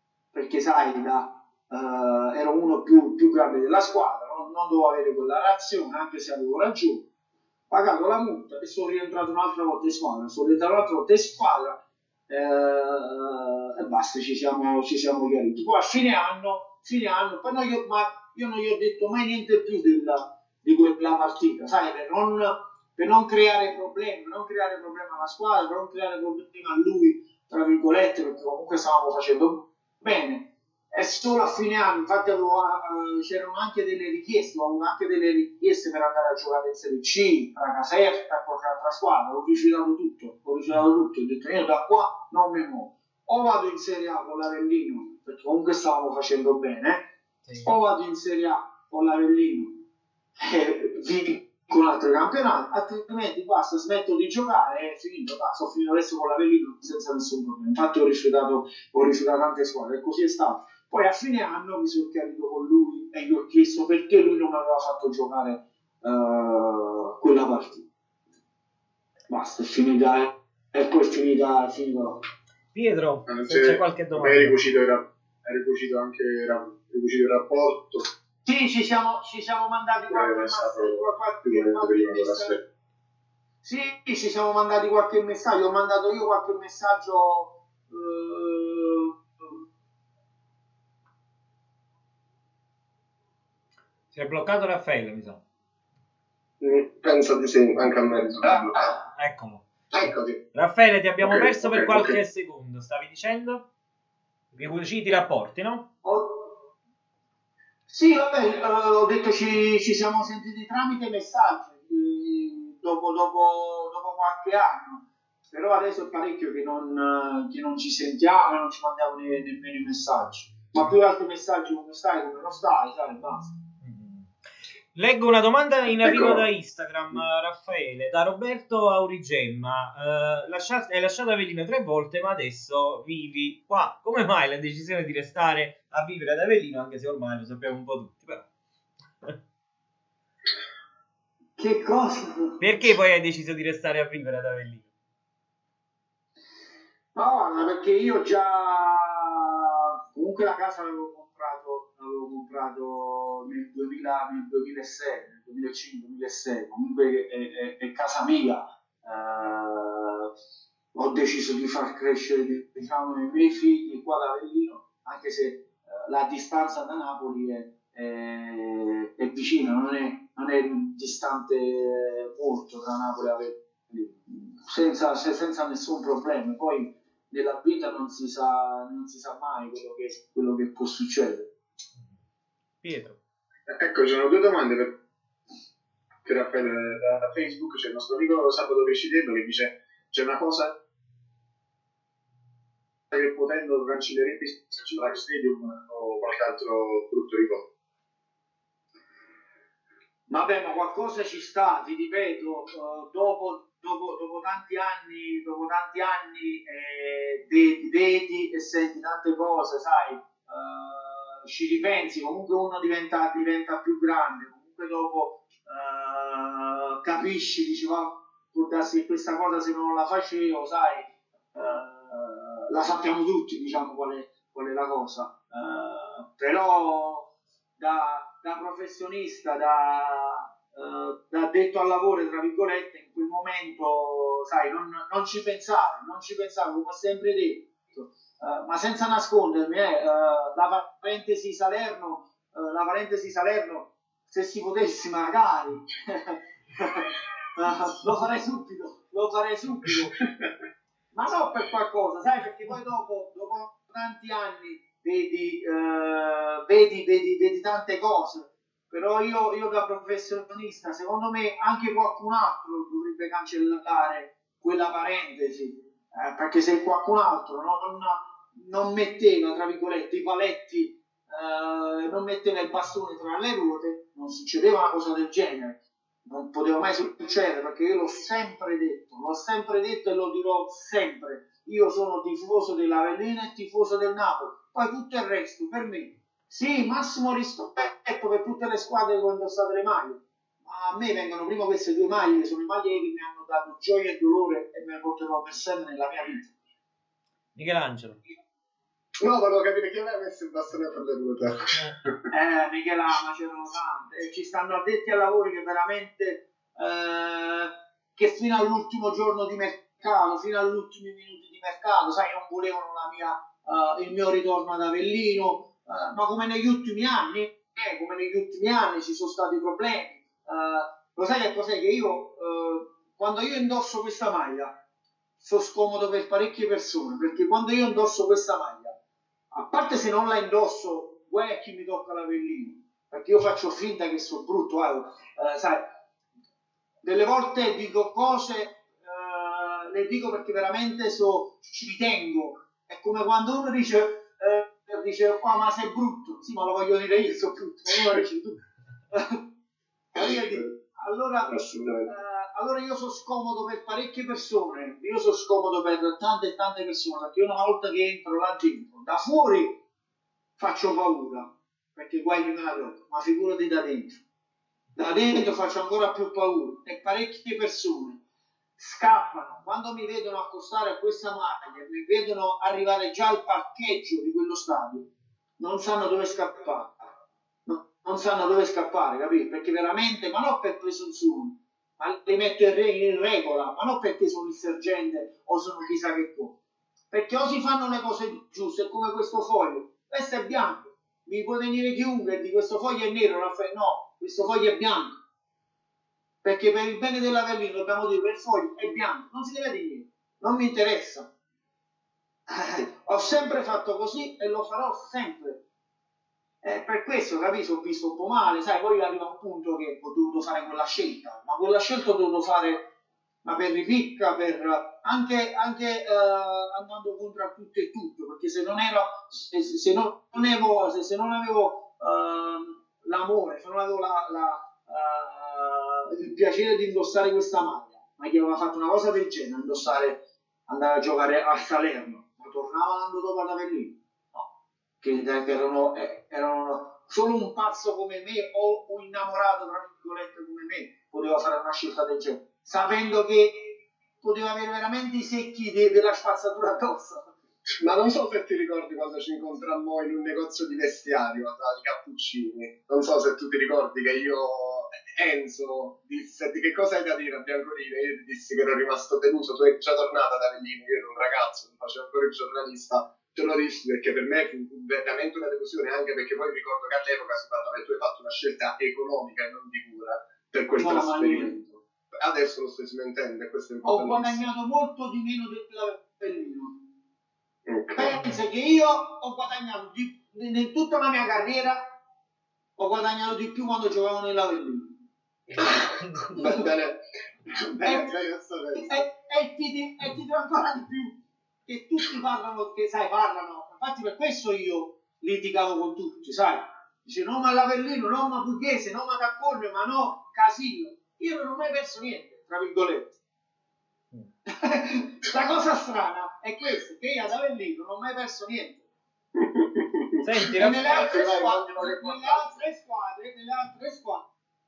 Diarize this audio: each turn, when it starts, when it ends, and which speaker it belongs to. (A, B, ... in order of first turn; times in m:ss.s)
0:00.3-0:07.0 A
0:07.7-0:47.0 A
0:47.6-0:49.8 A
0:50.4-1:07.9 A
1:09.3-1:12.2 A
1:12.7-1:14.5 B
1:13.3-1:18.0 C
1:18.4-1:22.6 A
1:20.1-1:22.5 C
1:23.6-1:29.4 A
1:34.1-1:35.4 B
1:36.6-1:38.9 D
1:39.0-1:39.6 B
1:39.9-1:40.4 D
1:40.5-1:43.6 B
1:41.2-1:42.2 D
1:44.5-1:45.9 B
1:46.0-1:46.6 A
1:47.9-2:03.5 A
2:03.8-2:04.3 B
2:04.9-2:18.5 B
2:06.0-2:06.4 D
2:21.6-2:22.7 A
2:22.6-2:24.9 B
2:27.1-2:40.3 A
2:40.9-3:01.5 A
3:02.8-3:03.2 B
3:03.7-3:05.0 C
3:06.2-3:10.7 C
3:13.1-3:17.7 C
3:20.3-4:10.2 A
4:11.1-4:56.5 A
4:57.6-4:58.2 B
4:59.2-5:01.8 D
5:02.3-5:24.7 A
5:25.4-5:28.9 A
5:29.5-5:35.8 A
5:37.0-5:48.6 A
5:49.1-5:49.5 A
5:50.1-5:59.8 A
5:50.2-5:50.7 D
5:51.5-5:52.1 D
6:00.6-6:04.2 A
6:05.0-6:08.2 A
6:08.8-6:15.1 A
6:15.6-6:16.9 A
6:17.6-6:26.6 A
6:27.1-6:35.1 A
6:36.4-6:41.3 A
6:42.5-6:45.6 A
6:46.6-6:52.9 A
6:53.4-7:14.4 A
7:15.0-7:27.3 A
7:27.8-7:54.4 D
7:50.8-7:51.5 A
7:53.8-7:56.8 A
7:57.7-7:58.2 D
7:57.9-8:01.8 A
8:02.8-8:04.9 A
8:05.6-8:09.0 D
8:07.7-8:08.2 A
8:08.7-8:23.1 A
8:24.5-8:28.8 A
8:29.4-8:32.5 D
8:30.2-8:31.0 B
8:30.4-8:34.3 A